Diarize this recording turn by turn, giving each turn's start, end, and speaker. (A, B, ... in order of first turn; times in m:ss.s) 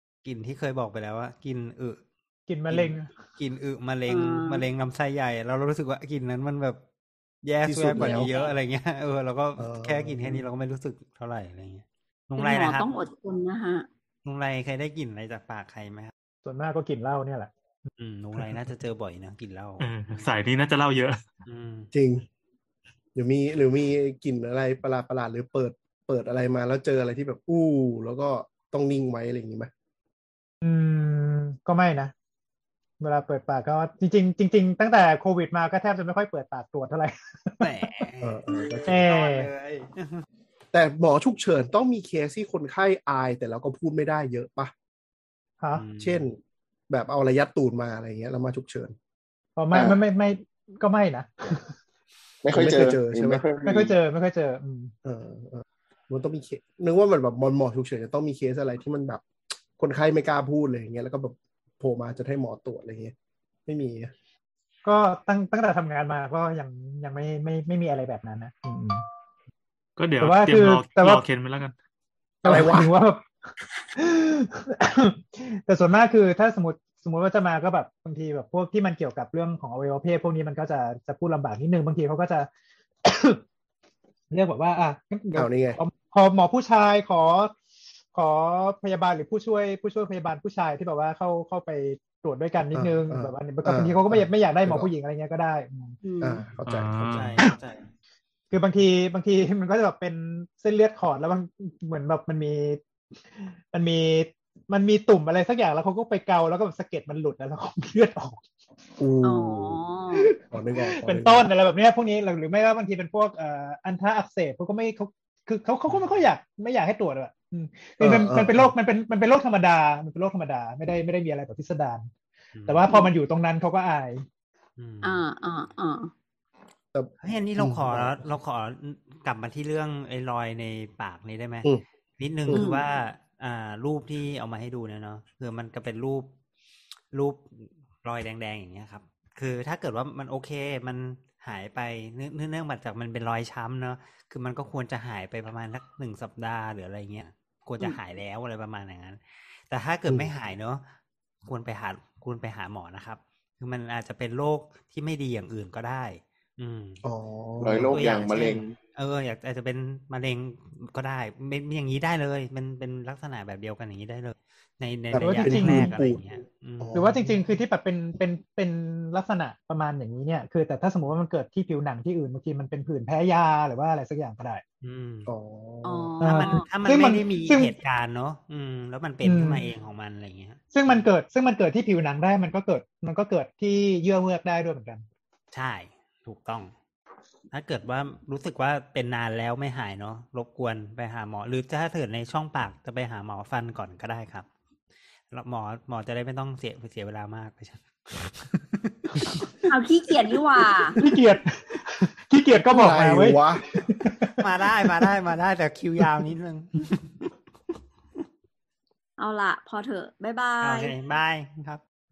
0:00.2-0:02.0 A
0:02.5-0:03.1 B
0:02.7-0:06.8 A
0:04.1-0:04.6 C
0:07.4-0:12.9 A
0:07.6-0:08.3 D
0:08.0-0:08.5 C
0:09.6-0:10.4 D
0:12.4-0:13.8 C
0:14.2-0:16.1 A
0:16.4-0:17.5 B
0:18.0-0:20.4 A
0:19.8-0:21.2 E
0:21.4-0:21.9 A
0:21.9-0:22.3 D
0:23.1-0:29.7 D
0:30.6-0:32.1 B
0:33.0-0:37.7 B
0:37.6-0:40.2 A
0:38.2-0:39.0 D
0:38.8-0:39.5 B
0:40.7-0:44.7 D
0:45.7-0:46.3 A
0:46.0-0:48.9 D
0:49.6-0:51.7 B
0:49.7-0:50.0 F
0:52.4-0:53.9 F
0:52.5-0:53.4 D
0:53.6-0:54.9 B
0:55.0-0:59.2 D
0:59.8-1:03.1 D
1:03.6-1:04.1 D
1:04.8-1:09.0 B
1:10.0-1:11.7 E
1:10.2-1:11.2 B
1:12.4-1:12.9 D
1:12.4-1:13.2 B
1:13.9-1:22.5 B
1:23.0-1:23.4 B
1:24.3-1:27.5 B
1:25.3-1:25.8 D
1:28.1-1:36.0 B
1:32.7-1:34.9 D
1:36.0-1:36.4 C
1:36.2-1:37.3 D
1:36.6-1:37.4 E
1:37.1-1:37.8 A
1:38.5-1:42.8 B
1:43.4-1:48.4 B
1:49.0-1:49.8 D
1:49.2-1:50.3 C
1:50.1-2:02.1 B
1:50.4-1:51.5 D
1:55.9-1:56.3 A
1:58.0-1:58.7 D
2:02.5-2:02.8 A
2:02.7-2:04.2 B
2:04.8-2:05.2 A
2:05.0-2:06.1 C
2:06.9-2:08.2 D
2:07.2-2:16.3 A
2:12.5-2:12.8 C
2:17.1-2:30.8 A
2:31.4-2:37.0 A
2:37.0-2:38.0 D
2:37.6-2:38.8 F
2:37.8-2:47.1 A
2:45.1-2:46.2 D
2:45.2-2:45.9 B
2:46.8-2:47.3 D
2:46.9-2:54.6 B
2:54.8-2:55.3 A
2:55.2-2:56.1 D
2:55.8-2:56.6 C
2:56.2-2:57.7 B
2:56.2-3:01.1 A
2:59.2-2:59.7 B
3:00.7-3:05.0 B
3:05.5-3:06.7 A
3:07.5-3:14.5 A
3:15.3-3:19.5 A
3:19.6-3:21.0 C
3:21.0-3:24.3 B
3:22.7-3:23.6 D
3:24.3-3:27.3 A
3:29.2-3:30.9 C
3:30.6-3:31.8 A